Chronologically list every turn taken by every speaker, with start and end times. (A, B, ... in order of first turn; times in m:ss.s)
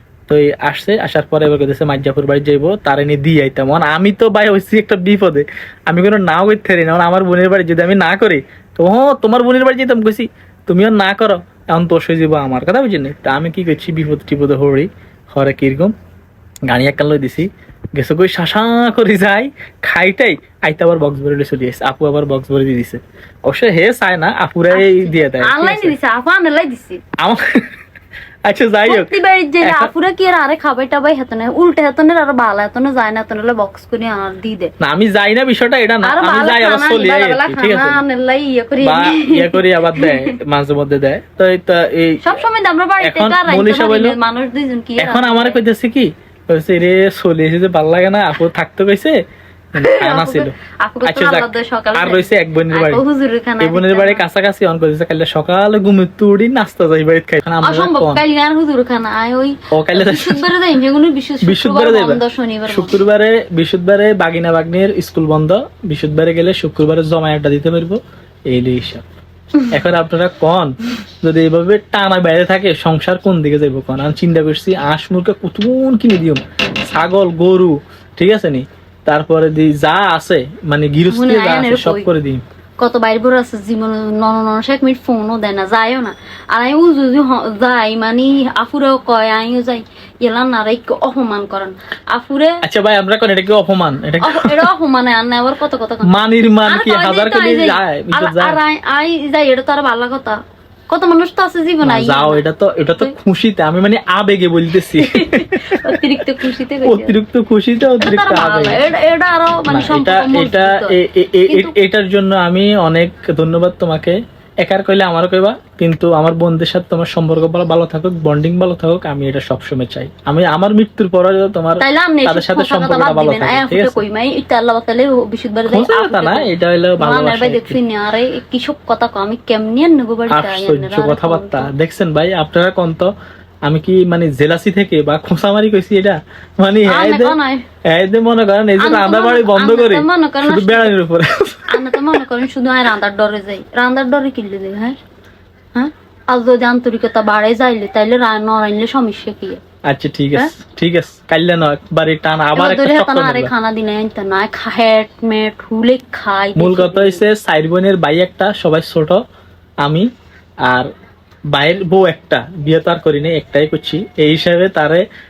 0:00.3-0:15.9 A
0:16.7-0:26.0 A
0:24.7-0:27.0 B
0:27.2-0:27.6 A
0:28.5-0:29.9 A
0:28.8-0:34.7 B
0:34.8-0:38.0 A
0:36.0-0:40.4 B
0:38.8-0:42.4 A
0:42.2-0:45.6 B
0:43.0-0:44.2 A
0:45.0-0:49.2 A
0:49.8-0:50.5 A
0:49.8-0:54.2 B
0:51.0-0:53.0 A
0:53.6-0:58.2 A
0:57.6-1:03.0 B
0:59.7-1:00.5 A
1:01.4-1:09.0 A
1:09.7-1:22.4 A
1:21.1-1:22.1 B
1:22.8-1:32.6 B
1:32.6-1:34.7 A
1:34.2-1:36.1 B
1:36.1-1:38.6 A
1:36.6-1:42.4 B
1:41.8-1:46.2 A
1:45.0-1:47.2 B
1:46.8-1:48.9 A
1:48.0-1:51.0 B
1:49.7-2:04.0 A
1:51.5-1:51.7 B
2:01.8-2:11.7 B
2:05.7-2:07.8 A
2:10.3-2:13.1 A
2:13.7-2:17.4 A
2:16.9-2:17.6 B
2:17.9-2:22.1 A
2:18.8-2:20.9 B
2:21.7-2:25.0 B
2:25.8-2:29.6 B
2:29.9-2:33.5 A
2:32.5-2:37.2 B
2:36.6-2:39.2 A
2:41.5-2:45.0 A